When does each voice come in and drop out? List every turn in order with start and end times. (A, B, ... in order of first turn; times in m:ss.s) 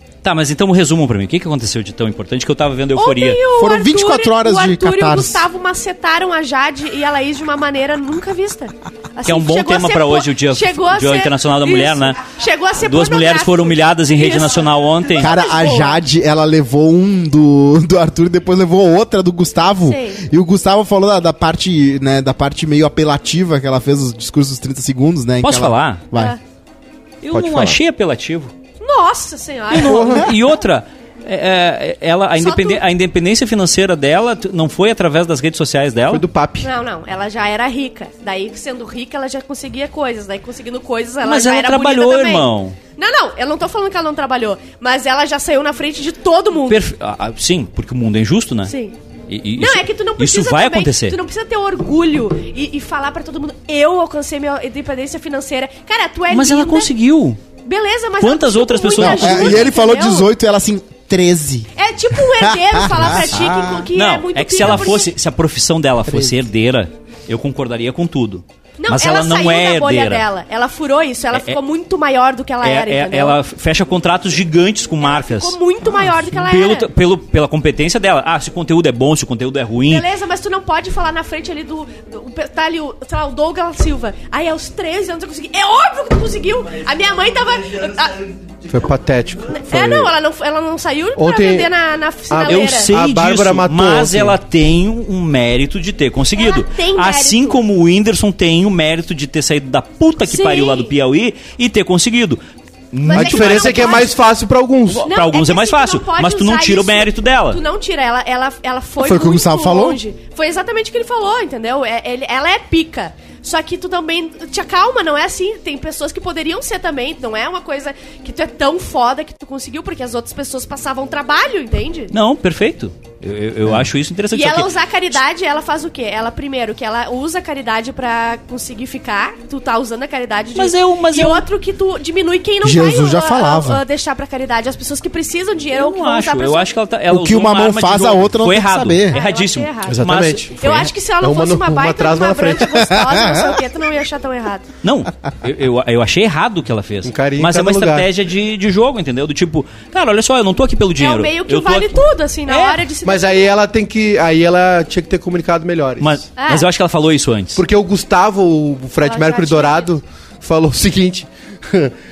0:00.2-0:03.4 A
0:03.0-0:16.0 B
0:03.6-0:05.4 C
0:09.2-0:12.2 A
0:12.8-0:15.3 A
0:15.2-0:26.4 C
0:19.8-0:20.2 B
0:25.4-0:26.0 A
0:27.2-0:28.5 A
0:27.3-0:27.8 D
0:28.8-0:30.3 B
0:29.7-0:36.2 A
0:29.7-0:30.3 D
0:32.4-0:32.8 B
0:36.1-0:36.7 D
0:36.6-0:46.8 B
0:41.2-0:42.8 A
0:46.7-0:48.7 A
0:48.7-0:49.0 B
0:49.3-0:51.2 A
0:49.6-0:56.9 B
0:56.3-0:57.4 A
0:57.6-1:00.3 B
0:58.2-0:59.7 A
0:59.0-1:01.7 C
1:01.8-1:05.1 B
1:02.3-1:03.9 C
1:03.9-1:10.2 A
1:06.1-1:06.3 C
1:08.8-1:13.4 B
1:11.3-1:11.6 A
1:12.6-1:15.6 A
1:15.0-1:16.9 B
1:16.4-1:20.1 A
1:19.9-1:28.3 B
1:28.7-1:30.1 D
1:29.5-1:32.9 B
1:31.2-1:31.7 D
1:32.3-1:34.4 D
1:32.5-1:42.4 A
1:36.3-1:37.6 B
1:40.2-1:40.9 B
1:42.9-1:44.1 A
1:43.0-1:44.2 B
1:43.1-1:45.1 D
1:44.9-1:47.6 A
1:45.0-2:02.1 B
1:49.0-1:50.0 C
2:02.1-2:04.7 A
2:04.3-2:16.7 B
2:10.6-2:11.4 A
2:12.6-2:13.8 C
2:15.7-2:20.9 A
2:17.1-2:19.2 C
2:19.1-2:24.7 B
2:19.9-2:20.6 D
2:21.2-2:22.9 D
2:23.0-2:23.6 C
2:24.8-2:32.8 A
2:27.0-2:28.1 D
2:31.0-2:33.5 B
2:33.0-2:36.2 D
2:36.0-2:37.6 A
2:36.4-2:36.7 B
2:37.6-2:41.9 D
2:39.0-2:39.9 B